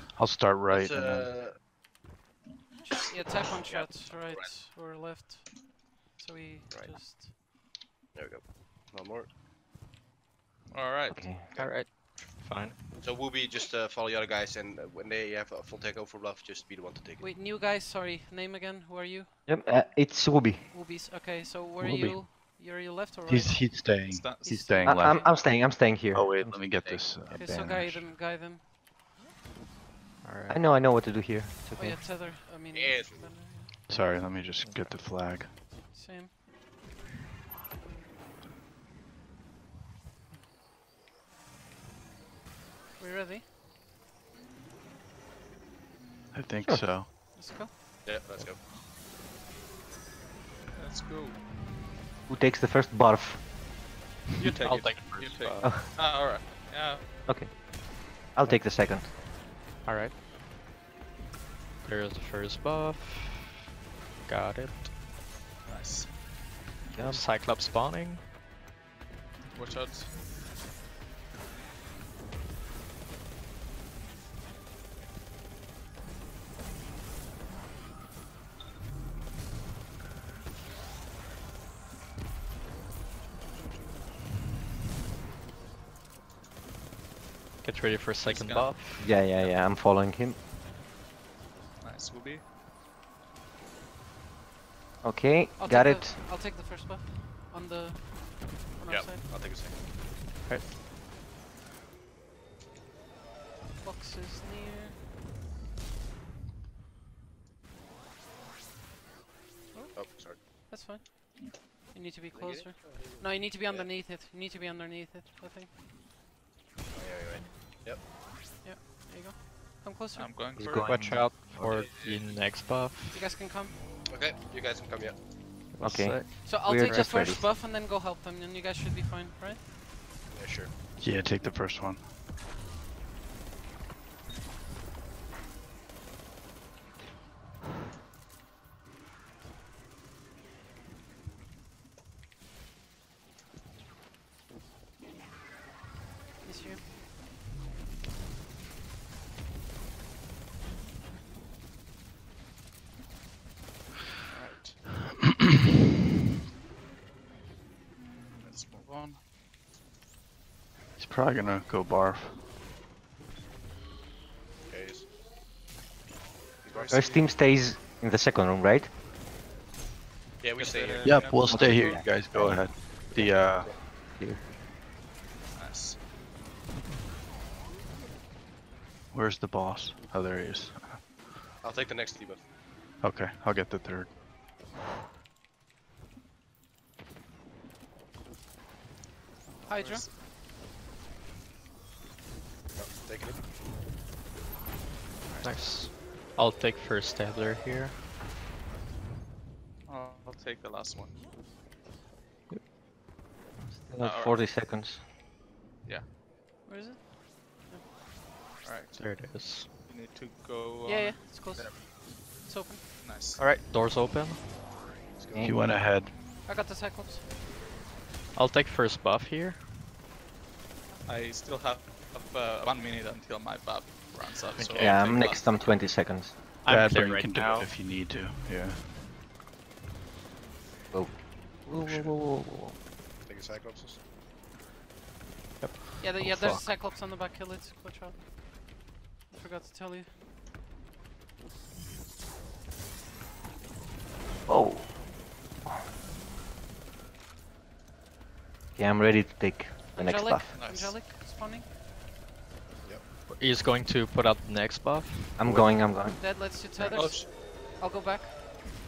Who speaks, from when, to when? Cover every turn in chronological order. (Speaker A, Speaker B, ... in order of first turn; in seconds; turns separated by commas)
Speaker A: 0.1-1.3, Speaker B: 0.7-1.6, Speaker C: 2.9-7.3, Speaker B: 3.4-4.5, Speaker B: 6.7-7.0, Speaker B: 8.1-9.3, Speaker D: 10.7-11.6, Speaker E: 11.1-11.5, Speaker F: 11.6-12.8, Speaker B: 13.0-17.3, Speaker C: 17.2-19.3, Speaker E: 19.5-20.7, Speaker C: 20.7-23.9, Speaker A: 21.8-22.3, Speaker A: 23.3-25.3, Speaker D: 24.1-24.6, Speaker C: 24.4-25.3, Speaker E: 24.8-26.9, Speaker A: 26.1-28.1, Speaker C: 27.3-28.6, Speaker F: 30.2-30.6, Speaker E: 30.5-32.0, Speaker C: 31.8-33.7, Speaker B: 32.7-33.3, Speaker A: 33.9-35.5, Speaker F: 34.6-35.0, Speaker C: 35.9-36.3, Speaker C: 43.0-43.5, Speaker A: 46.3-47.1, Speaker E: 46.6-47.0, Speaker C: 47.3-47.7, Speaker B: 48.0-48.6, Speaker D: 50.7-51.4, Speaker E: 52.3-53.5, Speaker D: 54.4-57.0, Speaker F: 54.6-55.9, Speaker E: 55.6-55.9, Speaker E: 57.3-59.1, Speaker F: 59.8-60.2, Speaker F: 61.8-63.6, Speaker F: 64.2-64.9, Speaker D: 65.7-66.1, Speaker E: 66.9-67.2, Speaker F: 67.0-68.2, Speaker D: 69.5-70.1, Speaker F: 87.6-89.1, Speaker D: 88.2-88.8, Speaker E: 89.0-90.4, Speaker D: 91.8-92.4, Speaker E: 95.0-96.2, Speaker C: 95.6-99.2, Speaker B: 98.9-99.8, Speaker C: 103.8-105.0, Speaker C: 109.7-115.7, Speaker B: 109.9-110.4, Speaker B: 112.3-113.9, Speaker B: 116.9-118.0, Speaker C: 118.6-120.3, Speaker D: 120.2-120.9, Speaker E: 120.6-121.3, Speaker F: 120.8-123.2, Speaker D: 121.9-122.3, Speaker C: 123.1-123.8, Speaker B: 124.1-125.2, Speaker F: 125.7-126.5, Speaker E: 125.8-127.4, Speaker C: 126.4-129.6, Speaker B: 130.3-130.7, Speaker A: 131.0-132.1, Speaker C: 146.4-146.8, Speaker D: 154.3-154.8, Speaker D: 158.4-159.2, Speaker A: 161.0-162.4, Speaker B: 164.7-165.1, Speaker B: 166.7-167.2, Speaker D: 166.7-167.2, Speaker E: 166.9-168.9, Speaker B: 170.4-171.2, Speaker D: 170.6-172.1, Speaker A: 171.0-173.7, Speaker E: 171.4-174.4, Speaker D: 175.6-176.0, Speaker A: 179.1-181.0, Speaker B: 181.6-182.5, Speaker A: 183.0-184.2, Speaker D: 189.6-190.1, Speaker C: 189.7-190.1, Speaker B: 192.8-193.4, Speaker D: 195.3-195.7, Speaker F: 195.4-198.0, Speaker D: 199.9-201.2, Speaker E: 203.6-205.0, Speaker D: 204.0-204.6, Speaker C: 206.7-207.8, Speaker D: 208.6-211.2, Speaker F: 209.0-209.7, Speaker C: 210.8-212.8, Speaker B: 211.6-211.9, Speaker D: 213.0-213.4, Speaker F: 213.4-214.4, Speaker B: 215.2-215.5, Speaker A: 215.4-216.1, Speaker C: 216.4-217.2, Speaker F: 218.3-219.9, Speaker D: 221.1-225.7, Speaker F: 224.6-225.0, Speaker E: 224.8-226.4, Speaker F: 226.6-227.7, Speaker A: 226.7-228.9, Speaker E: 230.9-232.8, Speaker B: 233.2-234.0, Speaker F: 235.6-236.0, Speaker C: 236.0-240.1, Speaker A: 236.1-236.8, Speaker E: 244.5-245.2, Speaker E: 248.8-250.5, Speaker C: 250.0-251.7, Speaker D: 250.5-251.0, Speaker F: 253.3-255.4, Speaker E: 255.4-257.1, Speaker A: 255.5-255.8, Speaker C: 256.2-258.7, Speaker D: 256.9-257.3